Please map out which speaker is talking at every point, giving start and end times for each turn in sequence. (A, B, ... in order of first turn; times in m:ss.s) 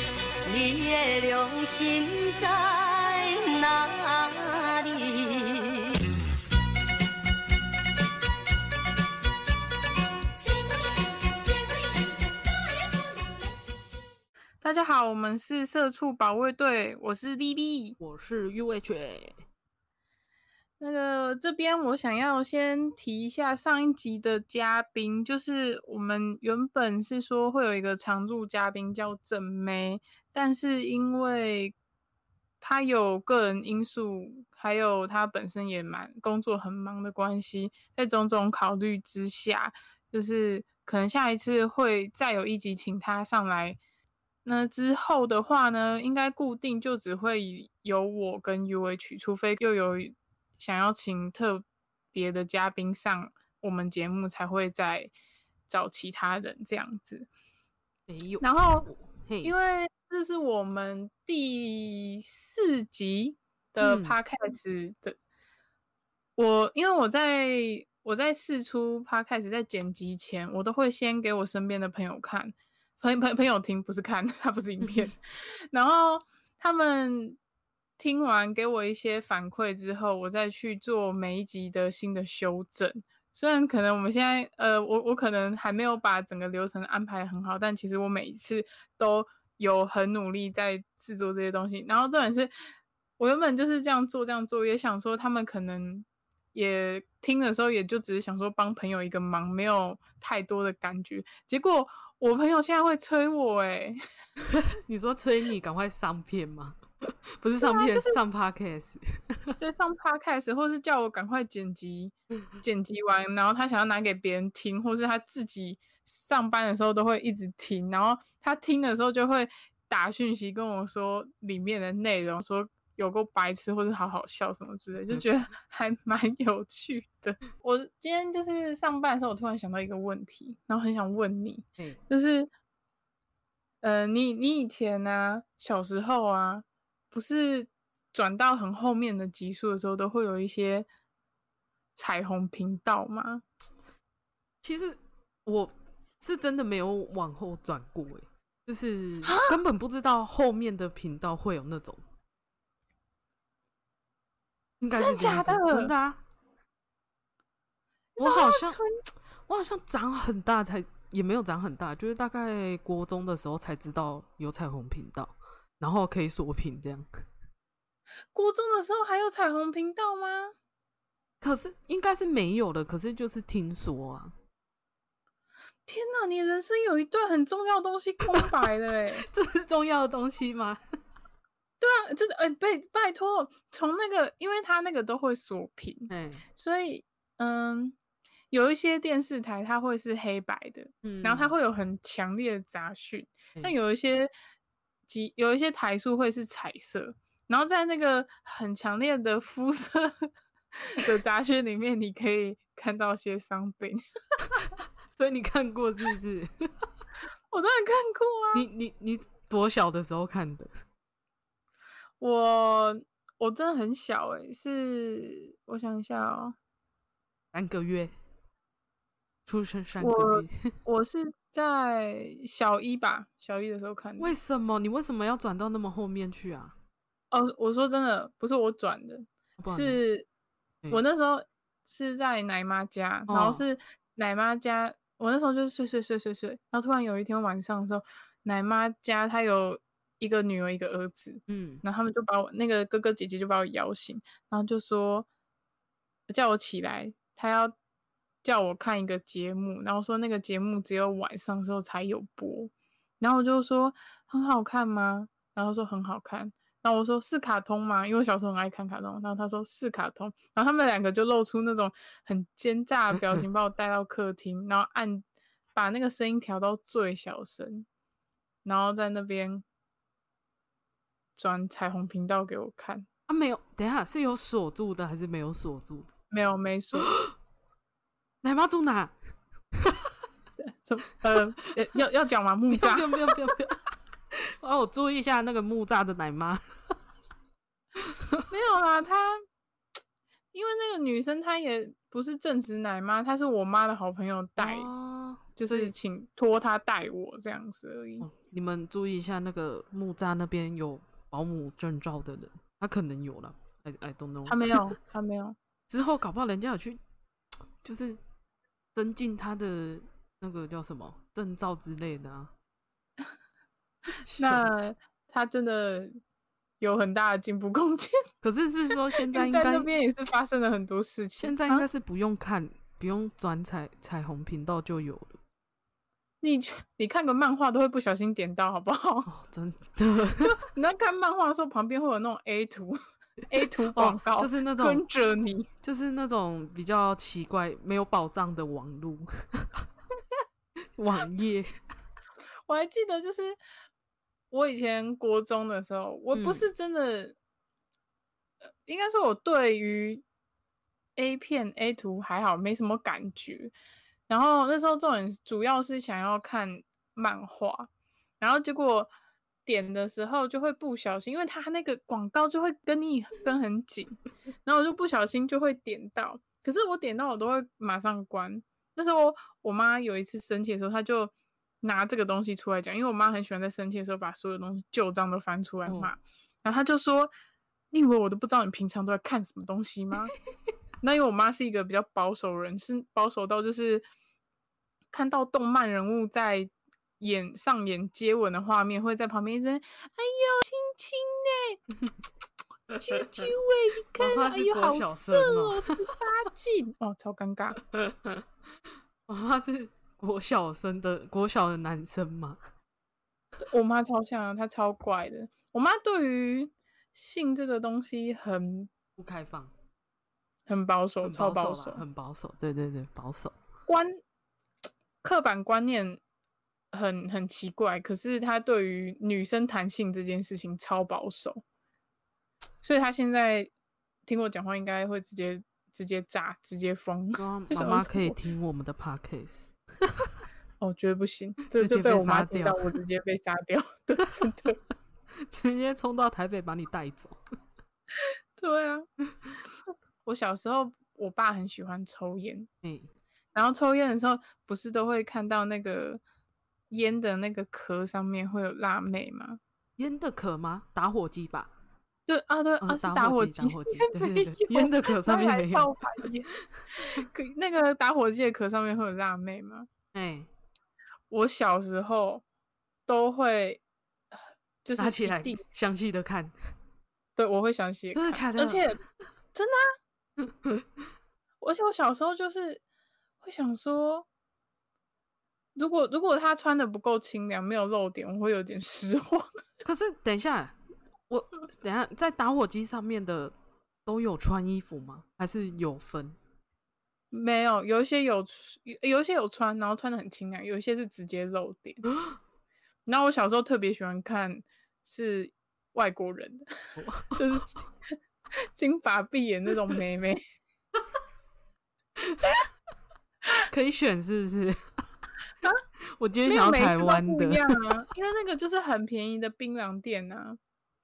0:00.5-0:06.0 A
0:10.5-0:12.4 A
0:14.6-0:18.0 B
0:18.0-0:19.4 C
0:20.8-0:31.8 B
0:32.6-0:43.8 B
0:44.4-0:55.1 B
0:55.7-0:57.3 B
0:58.1-0:59.5 C
0:58.4-0:58.9 B
0:59.4-1:05.2 B
1:03.8-1:04.2 C
1:06.4-1:17.4 B
1:14.8-1:15.1 C
1:18.0-1:32.5 B
1:33.2-1:44.0 B
1:44.5-1:49.6 C
1:47.6-1:48.2 B
1:49.6-2:12.5 B
2:13.8-2:20.9 B
2:22.0-2:23.4 B
2:24.6-2:32.0 C
2:29.2-2:29.6 B
2:34.8-2:36.2 C
2:35.0-2:35.9 B
2:38.2-2:39.0 B
2:38.2-2:38.8 C
2:39.5-2:47.1 C
2:48.3-2:50.5 B
2:51.4-2:54.3 C
2:55.9-2:59.3 B
2:59.3-3:00.8 C
3:01.8-3:08.0 B
3:06.1-3:06.4 C
3:08.5-3:14.3 B
3:11.0-3:11.5 C
3:15.1-3:24.7 B
3:25.1-3:26.9 C
3:27.5-3:28.7 B
3:28.5-3:30.7 C
3:32.2-3:36.6 B
3:37.5-3:38.1 C
3:39.5-3:40.7 C
3:40.0-3:44.4 B
3:44.2-3:46.7 C
3:47.3-3:50.3 B
3:49.6-3:50.0 C
3:50.9-4:05.3 B
3:53.3-3:53.6 C
4:01.5-4:01.8 C
4:06.3-4:07.7 B
4:08.4-4:27.9 B
4:28.6-4:29.6 B
4:31.4-4:33.1 B
4:33.3-4:36.1 C
4:36.3-4:37.1 B
4:37.0-4:37.3 C
4:38.4-4:39.1 C
4:39.8-4:40.1 C
4:40.6-4:43.4 B
4:42.7-4:46.6 C
4:48.0-4:48.4 C
4:48.5-4:49.4 B
4:50.5-4:54.9 B
4:54.6-4:55.9 C
4:55.6-4:58.3 B
4:58.2-5:04.9 C
5:04.5-5:05.6 B
5:05.9-5:07.0 C
5:07.8-5:08.2 C
5:08.9-5:12.5 C
5:14.3-5:14.8 C
5:14.4-5:16.2 B
5:16.8-5:18.2 B
5:18.4-5:19.9 C
5:19.1-5:21.9 B
5:21.4-5:25.4 C
5:26.4-5:29.3 B
5:29.3-5:30.6 C
5:30.4-5:35.7 B
5:33.8-5:35.0 C
5:35.8-5:39.8 C
5:41.0-5:41.7 C
5:42.7-5:43.6 B
5:44.5-5:47.4 B
5:46.3-5:46.7 C
5:48.8-5:50.2 B
5:51.2-5:53.7 B
5:54.3-5:59.1 B
5:59.7-6:17.3 B
6:15.9-6:16.1 C
6:17.9-6:20.3 B
6:21.0-6:24.0 B
6:25.1-6:31.8 B
6:32.9-6:33.5 C
6:33.0-6:37.8 B
6:34.2-6:36.0 C
6:37.9-6:38.4 C
6:39.3-6:42.6 C
6:43.6-6:48.9 B
6:49.2-6:49.7 C
6:50.7-6:52.0 B
6:51.2-6:53.6 C
6:53.9-6:54.2 B
6:55.2-6:56.2 B
6:56.9-7:01.6 B
7:02.8-7:03.7 B
7:04.3-7:08.4 B
7:07.4-7:10.3 C
7:10.8-7:14.8 B
7:11.7-7:12.9 C
7:15.4-7:17.4 C
7:18.2-7:19.1 B
7:20.2-7:22.7 B
7:22.8-7:23.1 C
7:23.6-7:26.2 B
7:26.9-7:29.6 B
7:30.0-7:31.7 C
7:32.3-7:39.9 B
7:32.8-7:36.2 C
7:40.1-7:40.5 C
7:41.3-7:42.4 B
7:43.1-7:43.8 B
7:44.8-7:45.6 B
7:45.0-7:46.6 C
7:47.4-7:49.0 B
7:48.1-7:48.8 C
7:49.5-7:49.8 B
7:50.4-7:50.8 C
7:51.6-7:52.8 B
7:53.4-7:54.3 B
7:55.8-7:59.5 B
7:59.8-8:00.8 C
8:01.3-8:03.5 C
8:04.1-8:06.4 C
8:07.3-8:12.1 B
8:13.1-8:16.7 B
8:17.0-8:17.4 C
8:17.3-8:17.9 B
8:18.7-8:20.4 B
8:22.2-8:22.6 C
8:23.7-8:25.0 C
8:26.0-8:28.0 C
8:26.5-8:30.6 B